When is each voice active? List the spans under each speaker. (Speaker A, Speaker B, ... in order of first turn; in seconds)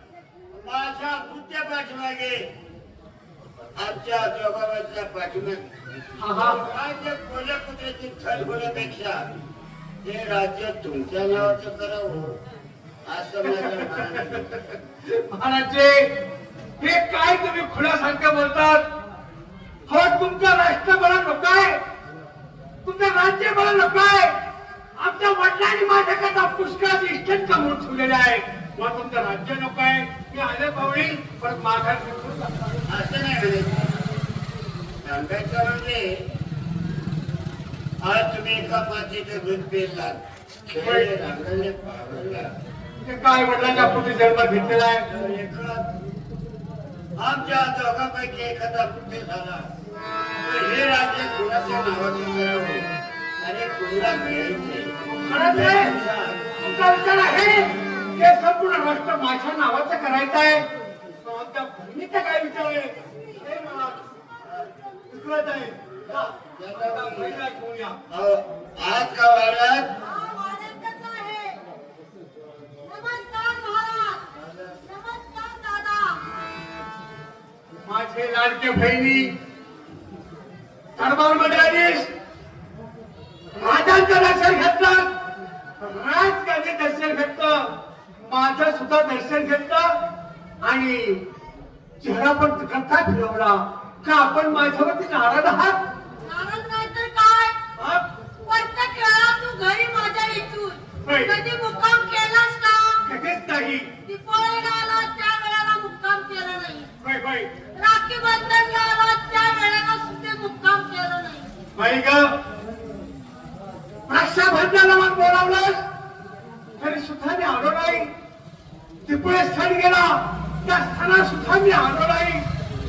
Speaker A: 0.5-2.4, 3.8-5.7, 6.3-9.2, 10.0-12.3, 13.1-14.7, 32.9-34.1, 35.0-36.2, 38.0-42.5, 44.9-45.8, 47.2-49.7, 50.4-52.9, 53.4-56.5, 66.0-67.4, 68.1-69.9, 74.4-74.8
Speaker B: 6.2-6.6, 13.4-14.4, 15.0-16.1, 16.8-18.8, 19.9-21.8, 22.8-24.3, 25.0-32.5, 43.0-45.0, 55.2-55.9, 56.5-60.7, 61.2-64.0, 65.1-68.0, 77.8-79.3, 81.0-82.1, 83.5-85.1, 85.8-87.7, 88.2-89.9, 90.6-91.2, 92.0-95.8, 97.8-98.0, 101.0-101.3, 103.0-103.9, 107.0-107.5, 111.8-112.3, 114.1-115.8, 116.8-118.1, 119.0-122.4
Speaker C: 70.0-71.6, 72.8-74.2, 74.8-76.4, 96.2-97.5, 98.5-103.0, 104.0-106.9, 107.7-111.5